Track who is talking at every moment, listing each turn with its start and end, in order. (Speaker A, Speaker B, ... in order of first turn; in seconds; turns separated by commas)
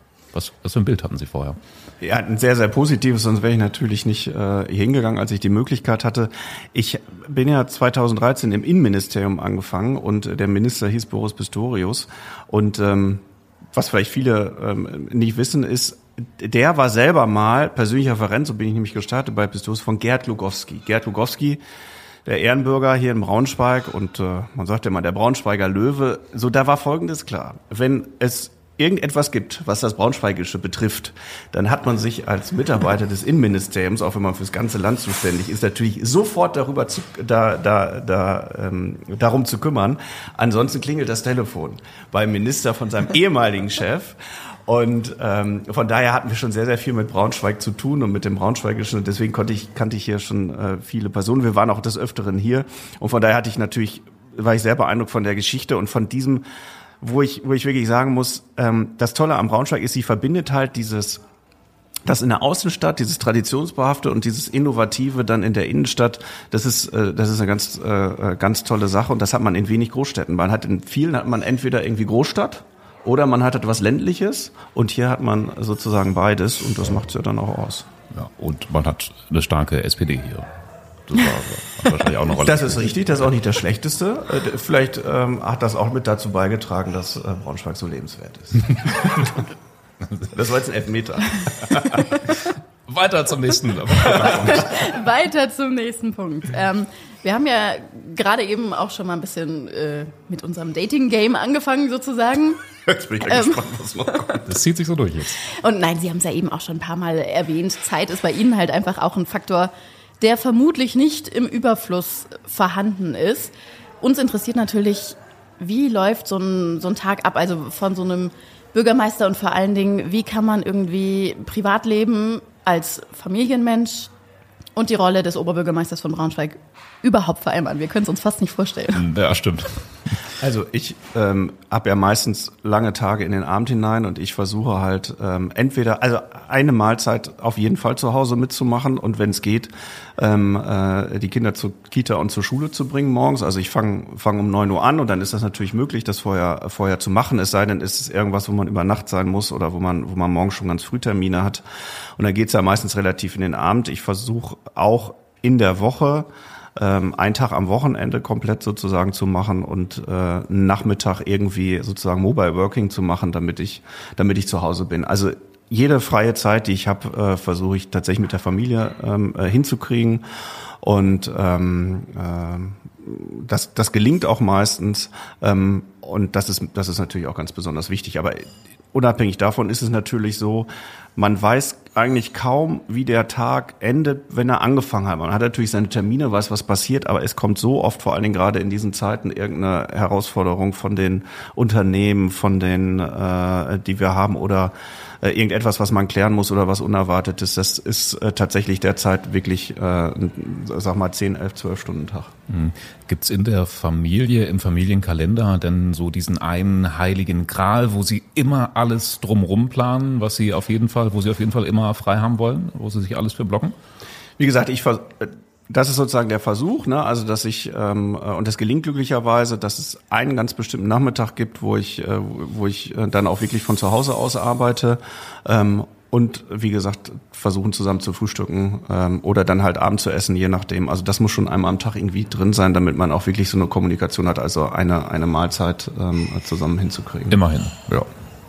Speaker A: 0.3-1.6, Speaker B: 2.0-21.6, Speaker B: 22.2-56.4, Speaker B: 57.0-61.2, Speaker B: 62.0-77.9, Speaker A: 78.1-80.5, Speaker A: 81.0-83.0, Speaker B: 82.3-89.4, Speaker B: 90.3-92.0, Speaker A: 92.4-94.9, Speaker B: 94.1-94.6, Speaker C: 94.3-102.6, Speaker B: 102.8-104.5, Speaker C: 103.2-104.3, Speaker A: 104.4-105.4, Speaker C: 105.4-124.1, Speaker C: 124.8-129.0, Speaker A: 128.9-129.9, Speaker B: 130.4-151.6, Speaker B: 152.2-170.2, Speaker B: 170.8-202.3, Speaker A: 202.5-213.7, Speaker B: 214.4-237.4, Speaker A: 237.3-238.1